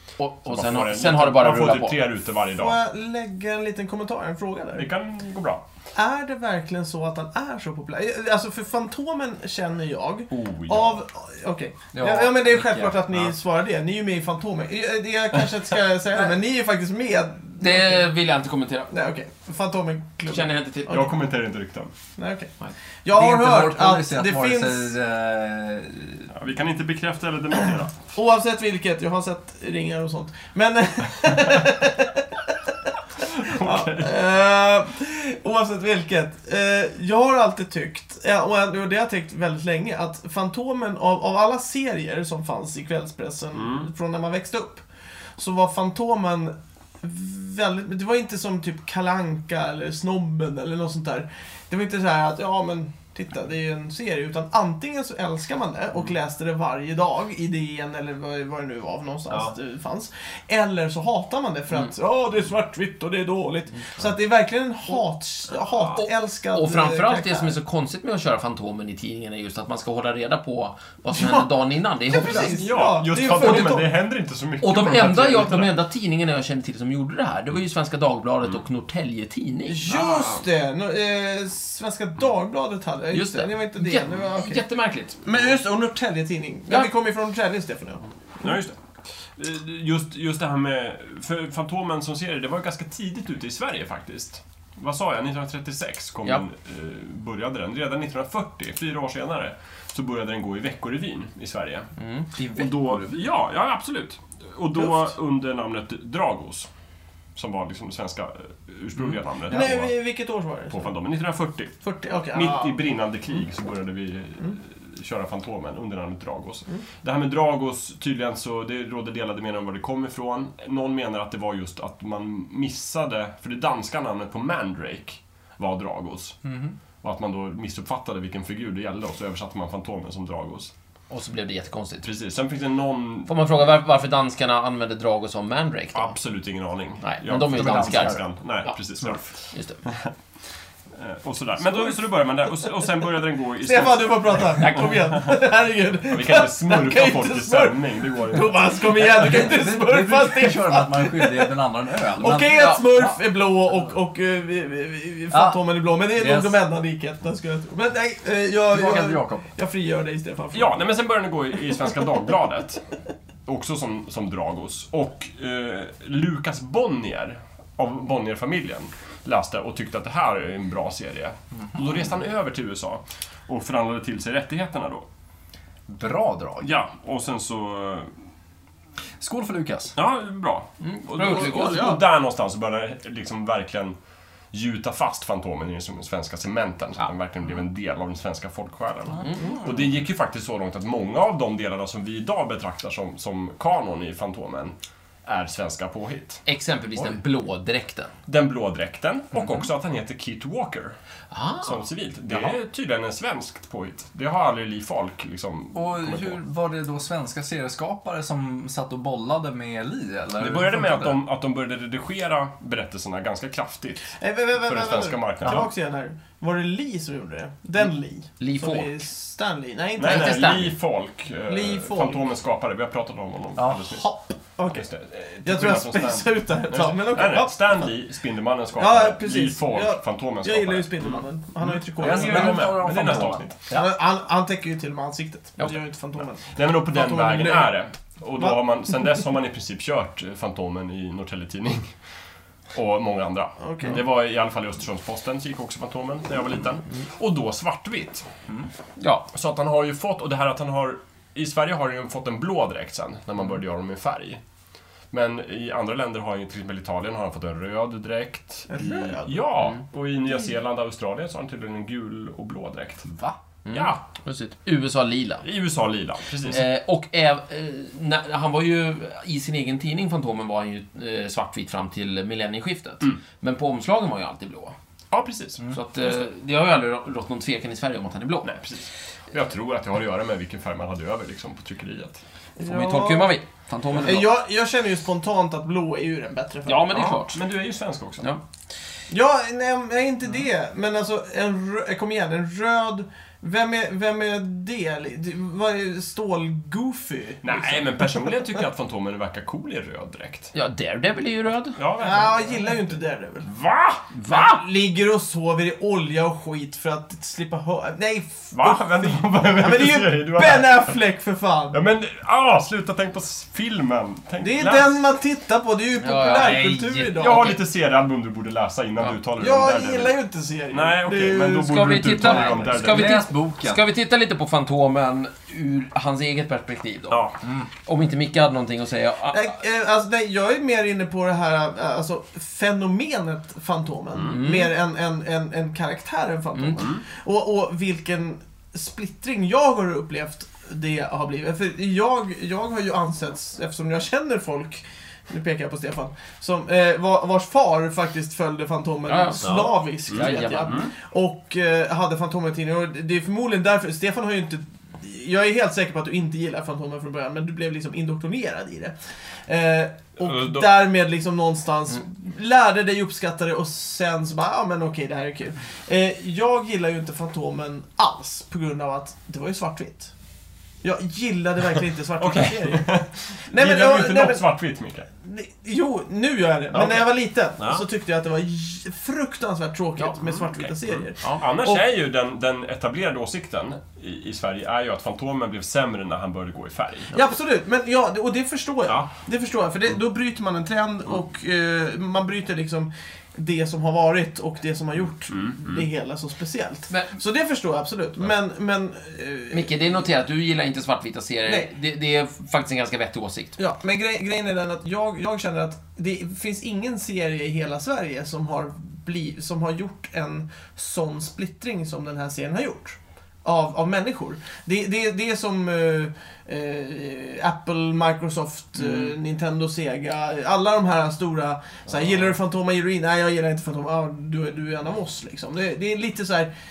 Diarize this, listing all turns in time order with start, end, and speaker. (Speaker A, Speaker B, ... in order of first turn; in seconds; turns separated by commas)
Speaker A: 0.2-2.0, Speaker B: 0.5-2.8, Speaker C: 2.6-4.9, Speaker B: 4.8-5.6, Speaker C: 6.0-18.1, Speaker B: 10.3-11.0, Speaker D: 11.9-13.1, Speaker A: 17.6-18.9, Speaker C: 18.9-21.0, Speaker A: 20.3-21.1, Speaker B: 20.9-21.9, Speaker C: 22.2-24.9, Speaker D: 23.1-26.3, Speaker B: 26.3-28.0, Speaker C: 28.1-32.9, Speaker B: 33.2-34.2, Speaker C: 33.5-44.9, Speaker B: 43.5-43.9, Speaker C: 45.4-67.5, Speaker A: 66.0-73.9, Speaker C: 71.1-71.5, Speaker C: 72.1-73.9, Speaker B: 72.2-75.7, Speaker A: 74.6-79.8, Speaker C: 79.7-84.6, Speaker B: 79.9-80.4, Speaker A: 83.1-85.2, Speaker C: 85.2-88.5, Speaker B: 88.4-88.8, Speaker B: 89.3-106.7, Speaker A: 102.0-103.0, Speaker B: 107.4-110.0, Speaker C: 109.5-111.0, Speaker B: 110.7-126.5, Speaker C: 111.8-112.8, Speaker D: 126.5-126.8, Speaker B: 127.0-130.7, Speaker A: 131.1-132.1, Speaker B: 132.0-133.4, Speaker A: 133.3-136.2, Speaker B: 135.9-140.1, Speaker A: 137.0-139.8, Speaker D: 137.3-138.2, Speaker B: 141.0-144.7, Speaker C: 143.6-160.8, Speaker B: 146.1-148.6, Speaker D: 148.9-153.2, Speaker A: 152.5-152.8, Speaker D: 155.3-155.6, Speaker D: 156.2-156.6, Speaker D: 158.7-159.4, Speaker B: 160.5-162.8, Speaker B: 163.5-175.1, Speaker D: 175.9-176.7, Speaker B: 176.6-178.1, Speaker D: 179.2-180.0, Speaker B: 180.0-184.0, Speaker A: 180.8-181.9, Speaker C: 181.2-182.0, Speaker B: 184.5-194.7, Speaker A: 189.2-189.5, Speaker B: 195.3-196.4, Speaker A: 196.5-198.1, Speaker B: 198.3-201.0, Speaker A: 201.3-202.6, Speaker B: 201.6-206.4, Speaker D: 205.8-211.2, Speaker B: 210.4-215.7, Speaker C: 214.2-220.6, Speaker A: 218.4-219.0, Speaker B: 220.0-224.1, Speaker A: 220.0-220.8, Speaker C: 221.5-222.2, Speaker D: 223.6-223.8, Speaker C: 223.9-224.8, Speaker B: 224.7-233.6, Speaker C: 225.4-227.6, Speaker C: 228.8-233.1, Speaker D: 232.0-233.8, Speaker C: 233.7-237.7, Speaker B: 236.5-241.9, Speaker B: 242.7-248.2, Speaker C: 243.6-244.0, Speaker A: 249.0-249.3, Speaker B: 249.3-254.4, Speaker B: 255.1-263.1, Speaker C: 258.7-259.4, Speaker A: 263.2-265.4, Speaker B: 265.4-266.7, Speaker A: 266.5-274.8, Speaker B: 275.1-275.6, Speaker A: 275.7-278.5, Speaker B: 278.4-282.2, Speaker C: 282.6-283.3, Speaker A: 282.6-284.3, Speaker C: 284.0-286.9, Speaker A: 286.7-287.4, Speaker B: 286.9-288.3, Speaker C: 289.1-298.3, Speaker B: 297.4-300.5, Speaker A: 300.5-301.8, Speaker B: 301.8-302.8, Speaker C: 302.0-303.5, Speaker B: 303.4-304.1, Speaker A: 304.1-304.6, Speaker C: 304.3-311.8, Speaker B: 308.5-311.0, Speaker B: 311.7-315.0, Speaker C: 314.4-317.5, Speaker A: 316.0-316.7, Speaker D: 316.3-317.2, Speaker B: 317.1-320.1, Speaker C: 319.4-321.7, Speaker B: 320.7-323.3, Speaker A: 321.4-327.3, Speaker D: 322.2-323.8, Speaker B: 327.1-327.4, Speaker A: 327.9-329.5, Speaker C: 329.3-358.9, Speaker A: 334.3-334.7, Speaker A: 336.6-336.8, Speaker B: 336.8-337.0, Speaker A: 349.1-350.9, Speaker B: 349.4-350.9, Speaker C: 359.5-370.1, Speaker B: 360.2-360.8, Speaker C: 370.8-372.9, Speaker B: 372.2-375.1, Speaker C: 373.5-374.4, Speaker C: 375.2-381.8, Speaker B: 376.7-377.9, Speaker B: 380.4-387.2, Speaker C: 387.1-399.7, Speaker B: 395.3-395.9, Speaker A: 399.5-403.6, Speaker C: 403.6-426.5